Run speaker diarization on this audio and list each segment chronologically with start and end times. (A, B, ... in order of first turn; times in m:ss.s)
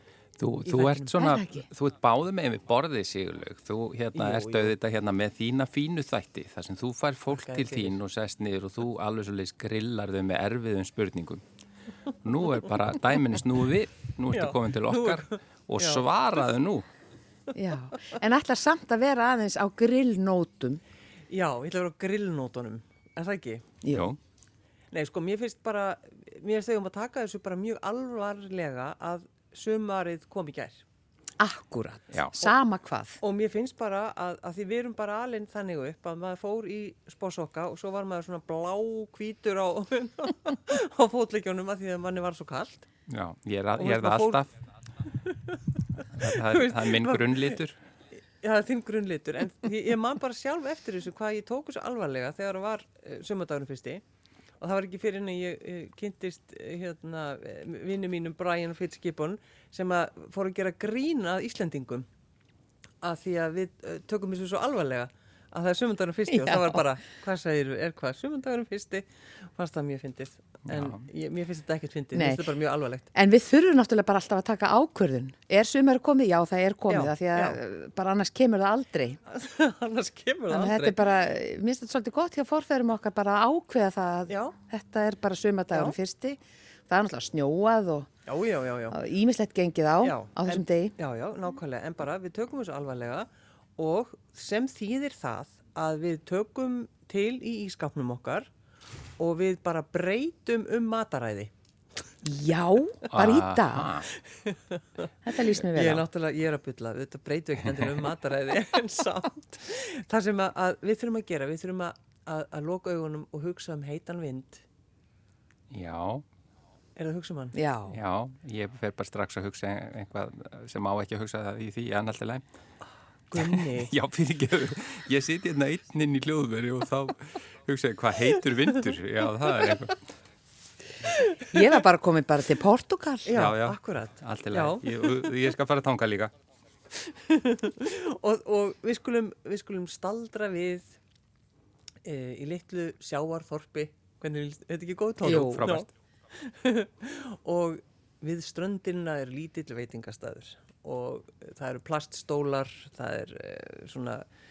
0:00.4-0:11.4 A
0:00.6-0:01.2 B
0:01.1-0:01.7 C
0:04.1-0:04.8 B
0:07.3-0:08.0 B
0:12.2-0:16.8 A
0:14.3-0:16.0 B
0:17.5-0:20.8 C
0:21.3-0:23.7 B
0:23.8-0:24.1 C
0:23.9-0:24.2 A
0:24.9-0:30.8 B
0:31.4-0:33.2 C
0:33.2-0:42.9 B
0:43.1-0:44.5 A
0:43.8-0:44.4 B
0:45.1-0:47.6 B
0:46.1-0:47.8 A
0:48.4-0:54.0 B
0:54.6-1:02.0 B
1:03.0-1:13.1 B
1:06.3-1:06.8 C
1:10.7-1:11.0 A
1:12.1-1:12.4 C
1:13.1-1:19.2 C
1:16.9-1:17.6 B
1:19.3-1:21.0 B
1:20.5-1:28.1 C
1:24.3-1:24.6 B
1:28.3-1:29.0 B
1:28.9-1:30.9 C
1:30.0-1:38.5 B
1:39.2-1:41.5 B
1:42.2-1:44.0 C
1:43.1-1:44.1 A
1:44.4-1:44.8 B
1:45.2-1:46.0 C
1:45.5-1:54.6 B
1:55.7-1:56.2 A
1:57.0-1:57.6 B
1:57.5-1:58.0 C
1:57.9-2:02.4 A
2:03.3-2:03.9 B
2:03.4-2:10.0 A
2:11.1-2:11.6 B
2:11.5-2:13.4 C
2:13.2-2:15.4 B
2:13.3-2:16.3 A
2:17.1-2:20.9 B
2:22.0-2:34.2 B
2:25.2-2:25.9 A
2:25.2-2:25.6 C